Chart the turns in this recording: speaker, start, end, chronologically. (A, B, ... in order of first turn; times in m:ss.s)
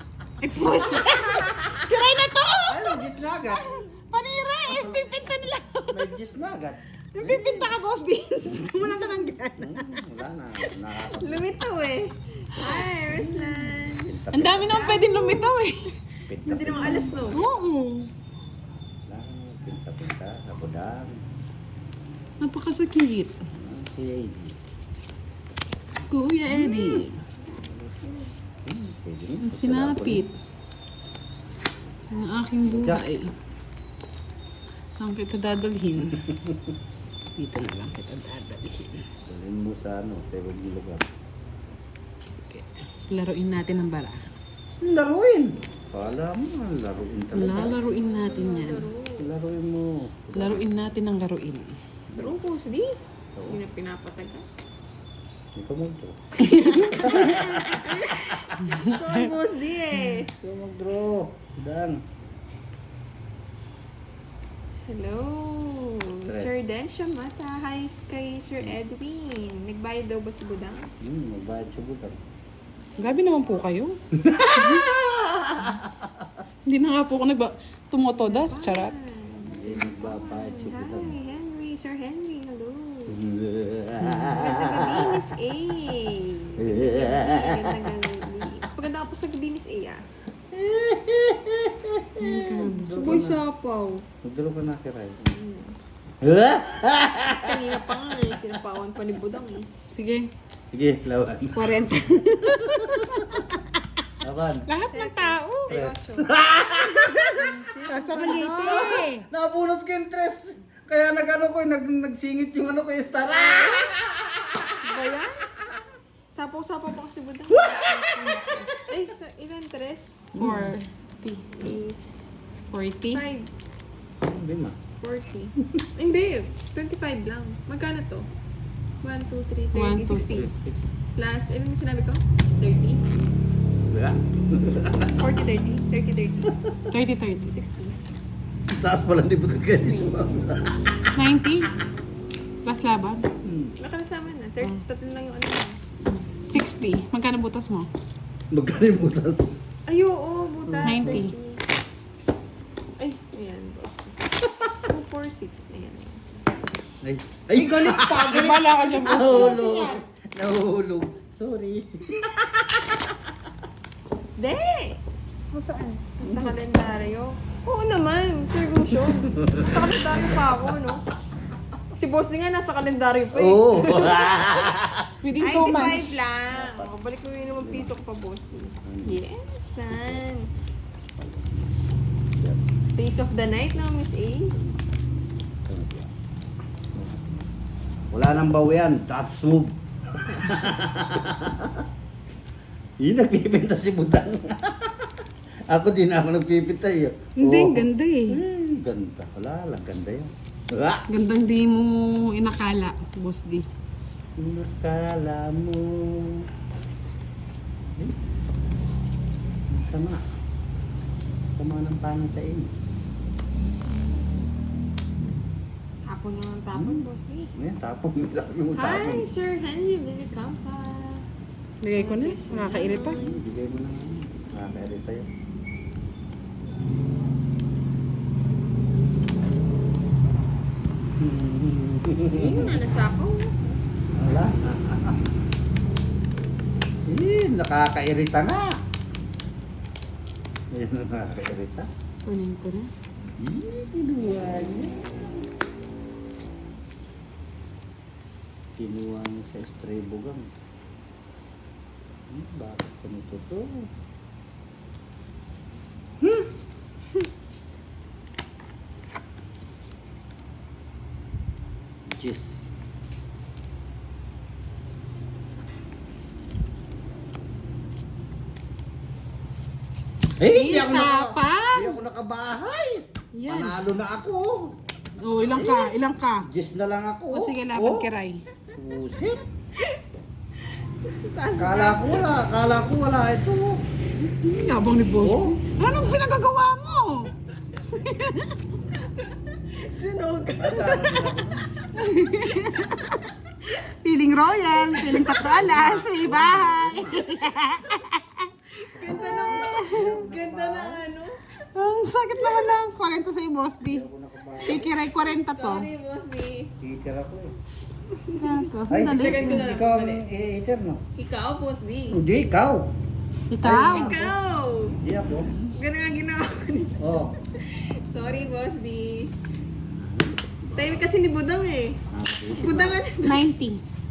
0:00.4-0:06.1 A
0:00.8-0:01.2 B
0:01.0-0:01.8 C
0:02.7-0:03.7 C
0:04.6-0:05.2 C
0:05.9-0:07.7 C
0:07.1-0:10.0 A
0:08.5-0:08.9 C
0:09.6-0:11.5 C
0:11.1-0:15.5 B
0:12.6-0:13.5 A
0:14.0-0:14.8 C
0:14.3-0:15.8 A
0:16.3-0:17.4 C
0:16.4-0:17.4 B
0:16.8-0:18.1 A
0:19.0-0:21.3 C
0:22.4-0:23.4 A
0:23.5-0:24.6 C
0:26.0-0:27.2 A
0:26.5-0:28.3 B
0:28.6-0:30.3 C
0:29.4-0:30.3 A
0:32.1-0:33.3 A
0:32.7-0:33.0 C
0:35.0-0:36.2 A
0:36.2-0:36.7 C
0:37.4-0:39.1 A
0:39.2-0:41.1 C
0:42.4-0:44.2 A
0:44.8-0:47.8 C
0:47.3-0:48.8 A
0:47.5-0:49.3 B
0:49.2-0:50.6 C
0:50.3-0:51.7 A
0:52.1-0:52.4 C
0:52.1-0:53.0 B
0:53.3-0:53.6 C
0:53.5-0:54.4 B
0:55.5-0:58.6 C
0:56.4-0:57.7 A
0:56.9-1:00.3 B
0:58.8-0:59.1 A
1:00.3-1:02.0 C
1:04.9-1:10.9 B
1:06.3-1:06.5 C
1:11.0-1:12.2 C
1:13.0-1:14.0 A
1:14.1-1:16.4 C
1:14.5-1:14.8 A
1:16.7-1:18.9 A
1:18.0-1:23.2 B
1:19.5-1:21.2 C
1:23.1-1:25.2 C
1:24.0-1:24.4 A
1:24.3-1:30.0 B
1:26.6-1:27.9 C
1:30.5-1:33.4 C
1:32.2-1:33.0 A
1:32.9-1:34.0 B
1:34.2-1:35.3 C
1:35.3-1:35.7 B
1:36.2-1:38.3 C
1:37.4-1:39.7 B
1:39.9-1:40.3 A
1:40.7-1:43.6 C
1:41.5-1:43.6 A
1:44.2-1:44.7 C
1:44.7-1:45.8 A
1:44.8-1:49.1 B
1:45.7-1:47.4 C
1:47.9-1:49.2 A
1:48.3-1:55.0 C
1:53.3-1:53.9 B
1:54.8-1:55.5 B
1:56.3-2:00.8 B
1:57.5-1:58.8 C
2:00.4-2:01.4 A
2:01.5-2:02.0 B
2:02.7-2:03.2 A
2:03.1-2:03.5 B
2:04.2-2:04.8 C
2:05.0-2:08.3 B
2:05.6-2:05.8 C
2:09.0-2:10.5 B
2:09.7-2:10.4 A
2:10.3-2:10.8 C
2:11.2-2:13.0 B
2:13.9-2:15.2 C
2:15.1-2:16.5 B
2:16.5-2:16.8 C
2:16.9-2:17.5 A
2:17.4-2:18.0 B
2:18.7-2:20.8 C
2:19.8-2:20.4 B
2:21.2-2:21.7 A
2:22.6-2:23.2 A
2:23.4-2:23.7 C
2:23.8-2:25.8 B
2:26.1-2:27.9 A
2:28.5-2:29.6 C
2:29.9-2:31.6 B
2:30.6-2:31.2 C
2:30.8-2:31.3 A
2:33.0-2:34.2 B
2:34.4-2:34.7 C
2:34.8-2:36.2 B
2:37.0-2:43.4 C
2:37.8-2:40.0 A
2:44.4-2:45.0 B
2:45.5-2:46.5 A
2:46.2-2:51.0 B
2:49.1-2:50.4 C
2:51.9-2:54.6 B
2:53.3-2:55.1 C
2:55.2-2:56.3 A
2:55.4-3:00.5 B
2:56.5-2:56.9 C
2:57.6-2:57.9 C
2:58.8-2:59.2 C
2:59.9-3:00.2 C
3:01.2-3:01.5 C
3:02.3-3:02.6 C
3:02.9-3:04.5 B
3:05.6-3:06.1 C
3:06.9-3:07.5 C
3:08.1-3:11.9 C
3:10.3-3:10.5 B
3:13.0-3:21.0 C
3:17.4-3:18.4 A
3:21.1-3:23.6 A
3:24.4-3:26.5 C
3:27.9-3:28.2 C
3:29.7-3:30.3 C
3:31.6-3:32.7 C
3:36.1-3:37.5 B
3:36.7-3:39.3 C
3:38.7-3:41.2 B
3:41.8-3:43.2 A
3:41.9-3:43.4 B
3:43.2-3:45.3 C
3:51.2-3:52.8 C
3:52.3-3:53.6 B
3:54.1-3:55.2 C
3:57.1-3:58.8 C
4:00.7-4:01.9 C
4:02.2-4:02.9 A
4:03.4-4:05.5 C
4:08.7-4:10.5 C
4:12.3-4:13.9 C
4:16.2-4:16.5 C
4:22.0-4:22.7 C
4:30.4-4:34.8 C
4:30.4-4:32.0 A
4:33.3-4:33.8 A
4:35.2-4:36.5 A
4:35.5-4:35.9 C
4:36.4-4:38.1 C
4:37.3-4:38.4 A
4:38.7-4:39.4 C
4:40.8-4:42.4 B
4:41.6-4:43.8 C
4:44.3-4:47.3 A
4:45.2-4:45.6 C
4:47.9-4:48.6 A
4:48.9-4:51.1 B
4:50.6-4:51.7 C
4:51.9-4:58.5 A
4:55.1-4:57.3 C
4:58.8-5:01.5 B
4:58.9-5:01.1 C
5:01.7-5:04.0 A
5:03.8-5:04.9 C
5:04.6-5:06.7 B
5:04.6-5:05.9 A
5:06.8-5:07.6 C
5:08.1-5:10.2 B
5:08.4-5:09.7 A
5:08.9-5:11.0 C
5:11.2-5:12.2 B
5:12.1-5:12.9 C
5:13.5-5:14.2 A
5:13.6-5:14.3 C
5:13.7-5:15.0 B
5:15.0-5:15.5 C
5:15.6-5:17.0 B
5:17.0-5:17.3 C
5:17.5-5:19.3 B
5:19.9-5:21.1 C
5:20.7-5:22.0 B
5:22.1-5:23.0 C
5:22.5-5:23.5 B
5:23.2-5:23.8 A